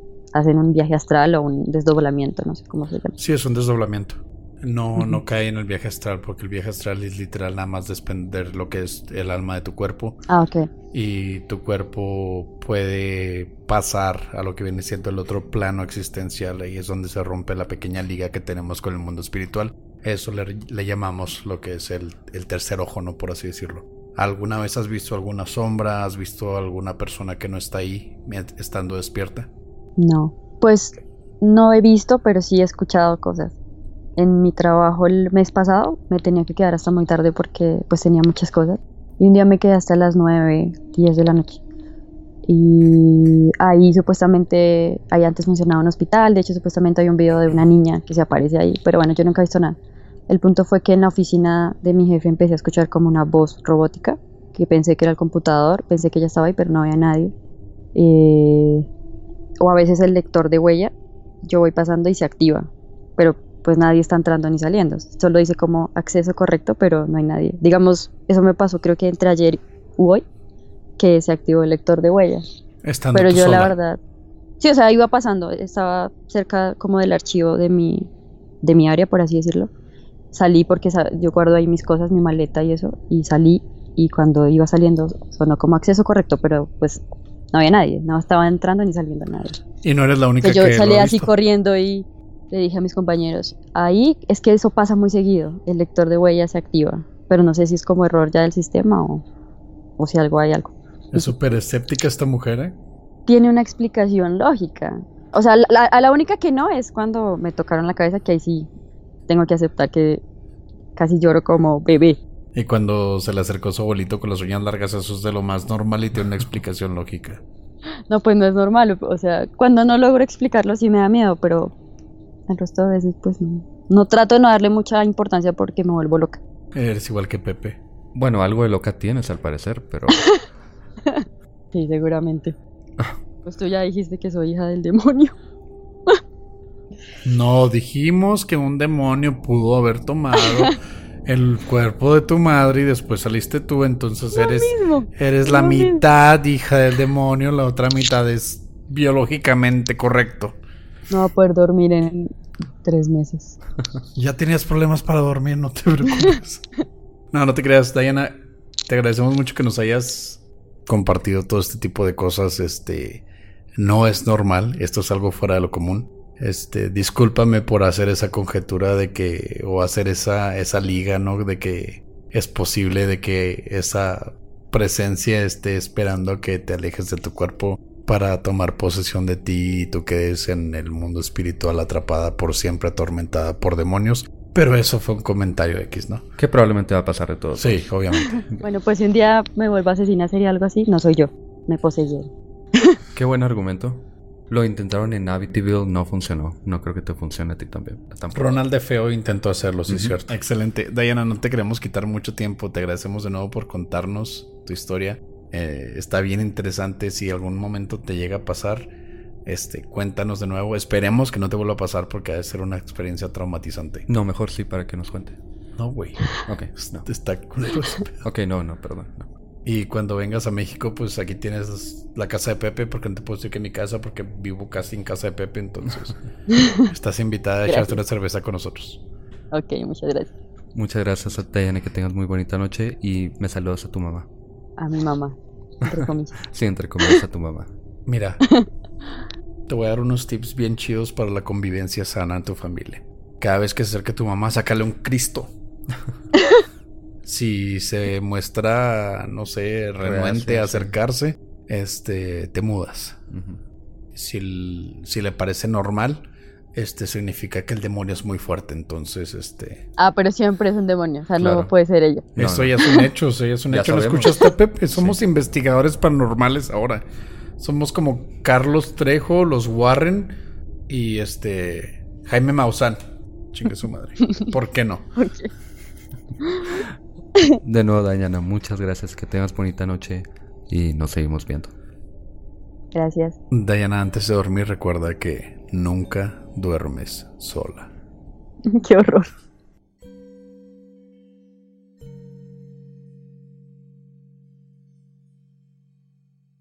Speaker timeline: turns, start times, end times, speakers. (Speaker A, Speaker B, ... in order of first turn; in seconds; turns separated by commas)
Speaker A: 0.3-3.1, Speaker B: 3.2-10.2, Speaker A: 10.3-10.7, Speaker B: 10.9-29.5, Speaker A: 30.0-33.5, Speaker A: 34.2-41.6, Speaker A: 42.5-49.8, Speaker A: 50.3-57.3, Speaker A: 57.9-58.9, Speaker A: 59.6-60.9, Speaker A: 61.4-70.2, Speaker A: 71.0-72.4, Speaker B: 72.8-73.7, Speaker A: 73.1-74.0, Speaker A: 74.6-78.1, Speaker A: 78.6-79.7, Speaker A: 80.3-89.6, Speaker B: 89.8-91.3, Speaker A: 90.4-99.2, Speaker A: 100.0-101.3, Speaker B: 101.1-102.8, Speaker A: 103.2-108.7, Speaker A: 109.3-110.2, Speaker A: 111.0-112.2, Speaker B: 112.5-117.4, Speaker A: 118.1-121.7, Speaker A: 122.5-126.4, Speaker B: 126.7-127.8, Speaker C: 128.1-130.2, Speaker A: 130.1-130.4, Speaker A: 131.0-132.5, Speaker A: 133.4-135.3, Speaker B: 137.2-150.6, Speaker A: 140.4-140.7, Speaker A: 144.3-146.0, Speaker A: 151.1-153.6, Speaker B: 154.1-156.7, Speaker B: 157.3-163.2, Speaker B: 163.8-186.3, Speaker C: 186.4-188.6, Speaker B: 187.6-188.4, Speaker A: 188.6-193.0, Speaker C: 193.1-198.6, Speaker B: 198.3-208.9, Speaker C: 199.9-200.2, Speaker B: 209.4-214.1, Speaker C: 214.1-215.4, Speaker B: 215.8-216.2, Speaker C: 216.4-217.1, Speaker B: 216.8-218.2, Speaker C: 218.2-219.3, Speaker B: 219.6-226.1, Speaker A: 226.5-226.9, Speaker B: 226.9-229.0, Speaker A: 227.7-228.0, Speaker A: 229.5-230.3, Speaker C: 230.7-234.3, Speaker A: 234.8-236.4, Speaker C: 236.5-237.7, Speaker B: 238.1-238.4, Speaker A: 238.4-238.7, Speaker B: 239.7-245.5, Speaker B: 247.2-253.3, Speaker C: 250.0-250.9, Speaker C: 253.3-253.6, Speaker B: 254.1-259.9, Speaker A: 260.0-262.3, Speaker C: 261.4-261.7, Speaker C: 262.4-262.7, Speaker B: 262.4-267.0, Speaker C: 263.7-265.2, Speaker B: 267.6-270.4, Speaker B: 270.9-273.0, Speaker B: 273.5-275.1, Speaker A: 274.2-274.5, Speaker A: 275.2-275.5, Speaker A: 276.4-276.8, Speaker C: 277.6-281.7, Speaker A: 282.9-283.4, Speaker B: 283.5-287.9, Speaker A: 288.6-289.3